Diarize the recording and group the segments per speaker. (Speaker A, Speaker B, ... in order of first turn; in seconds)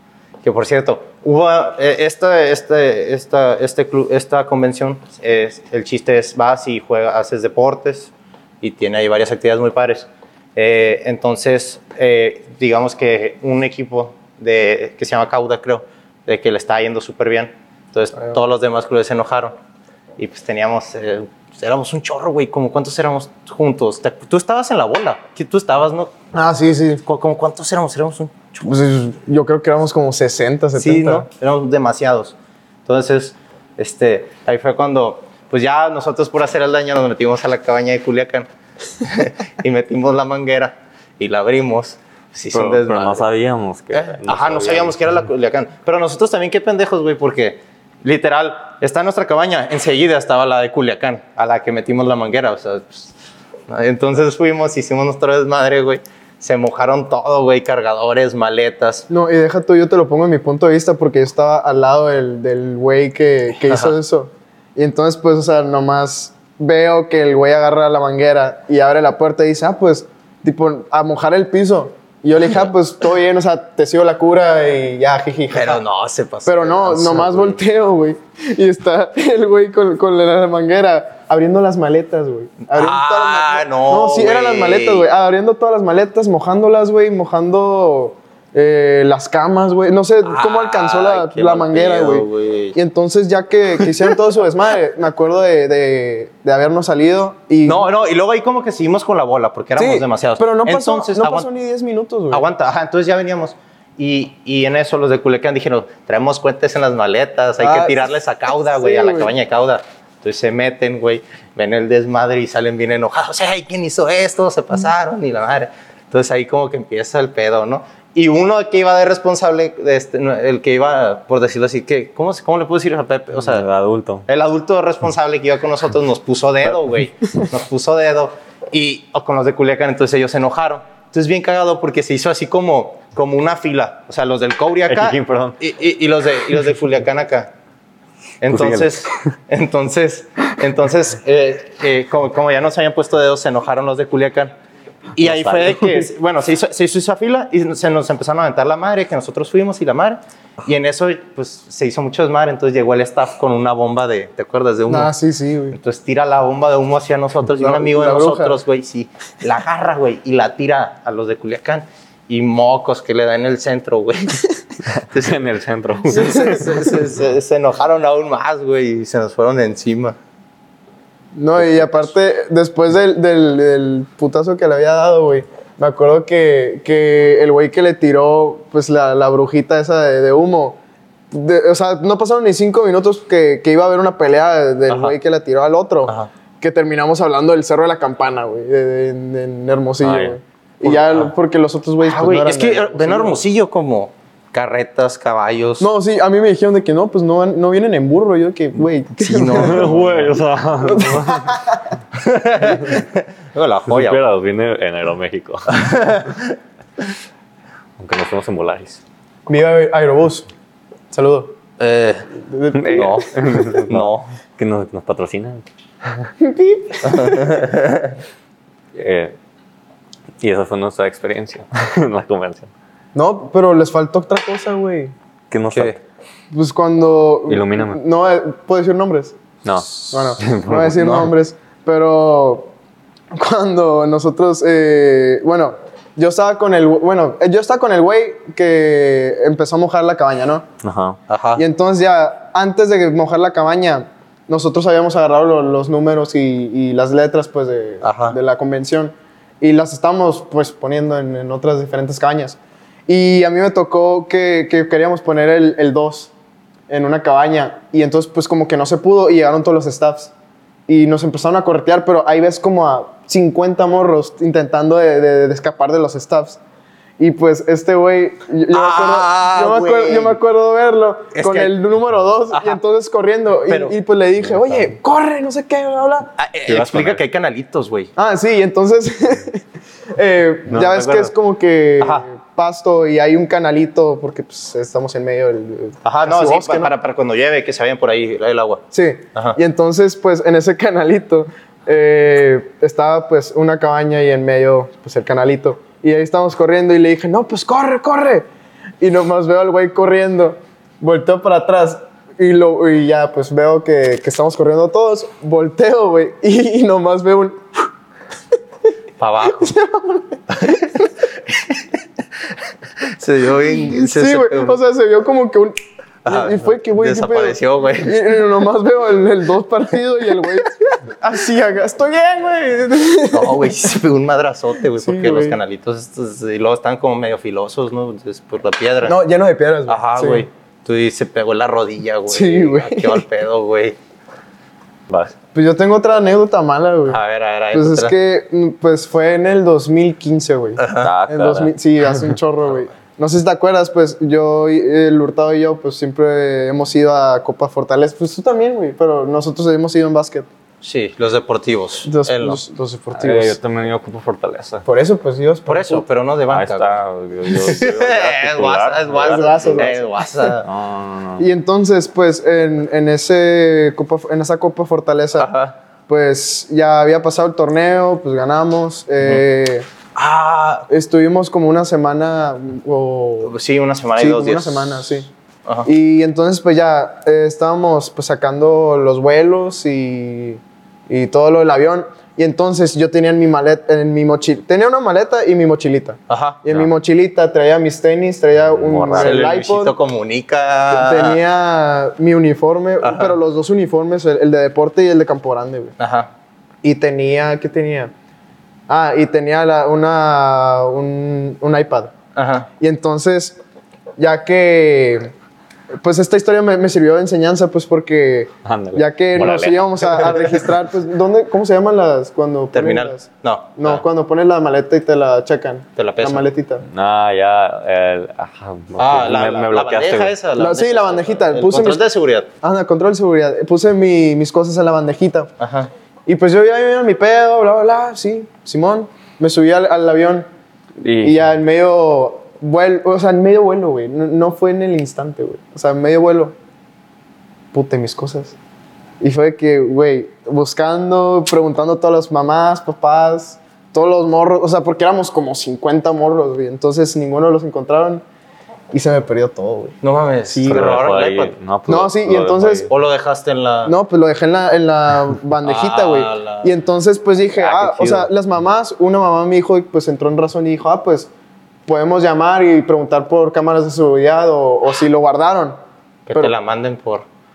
Speaker A: 0.4-19.6, 20.2-26.1, 27.0-28.6, 30.8-38.5, 39.0-43.2, 43.9-53.1, 53.7-59.1, 63.7-63.9, 75.5-77.6, 82.7-85.1, 90.2-92.8, 93.8-94.1, 97.7-101.5, 102.3-123.7, 124.3-137.5, 138.4-144.5, 145.2-155.1, 155.7-164.5, 165.0-165.4, 166.1-170.2, 190.8-191.2, 192.0-195.9, 199.2-200.4, 202.1-204.2, 205.7-206.5, 211.8-212.3, 212.9-214.3, 217.1-218.1, 225.7-226.0, 231.0-231.3, 241.3-241.6, 248.0-248.4, 268.7-270.4, 271.3-271.7, 272.5-272.8, 273.7-273.9, 276.4-278.1, 280.7-281.3, 282.0-282.2, 286.0-288.8, 309.2-309.7, 313.0-314.8, 316.2-318.2, 323.3-329.2, 329.9-333.9, 337.1-338.1, 340.8-341.1, 350.8-352.6, 355.7-360.7, 365.4-365.7, 370.1-370.9, 373.4-375.9, 386.3-386.6, 389.2-391.4, 393.0-393.4, 396.0-396.3, 402.4-402.7, 412.7-414.0, 415.9-416.5, 419.0-422.5, 425.6-425.9, 450.0-451.5, 452.9-453.9, 455.6-456.7, 457.6-458.3, 466.3-467.2
Speaker B: 26.3-27.0, 28.6-31.3, 59.1-75.8, 76.5-97.8, 99.8-102.5, 107.6-108.1, 108.7-109.3, 154.9-155.8, 157.6-158.6, 166.1-166.9, 171.3-180.8, 181.3-193.4, 195.8-199.9, 200.8-201.9, 209.5-210.5, 211.1-211.5, 212.4-213.3, 216.4-217.6, 223.1-225.1, 226.5-229.4, 230.1-232.7, 233.3-240.7, 241.6-256.3, 256.9-260.3, 260.9-266.6, 267.2-276.3, 278.1-279.6, 280.1-286.9, 288.9-298.4, 299.0-307.6, 309.4-311.1, 313.9-323.9, 325.0-325.6, 329.0-330.4, 332.3-333.2, 335.5-337.2, 337.7-350.5, 352.0-353.6, 354.8-356.0, 359.1-360.1, 361.4-365.5, 366.1-369.9, 370.9-373.5, 374.2-375.3, 375.8-389.9, 390.9-395.9, 396.8-398.1, 398.9-402.1, 402.8-403.6, 404.2-405.3, 406.0-413.2, 413.8-416.8, 420.6-422.0, 422.6-425.5, 426.3-430.4, 431.2-436.5, 437.7-438.6, 439.2-448.2, 448.9-449.9, 450.5-450.9, 451.9-452.9, 453.8-461.3, 461.9-465.8
Speaker C: 42.5-45.0, 123.4-124.2, 134.9-135.6, 138.5-139.1, 145.2-146.0, 164.8-166.7, 190.0-190.4, 199.5-201.5, 203.9-206.1, 208.0-209.0, 212.7-216.2, 218.9-219.3, 220.4-222.7, 225.5-226.0, 227.5-228.0, 229.6-231.3, 240.8-241.2, 276.6-277.2, 335.1-335.3, 340.9-341.7, 353.1-354.8, 356.5-359.8, 360.6-361.4, 388.7-389.5, 408.6-410.5, 416.9-420.3, 431.0-431.4, 450.6-452.9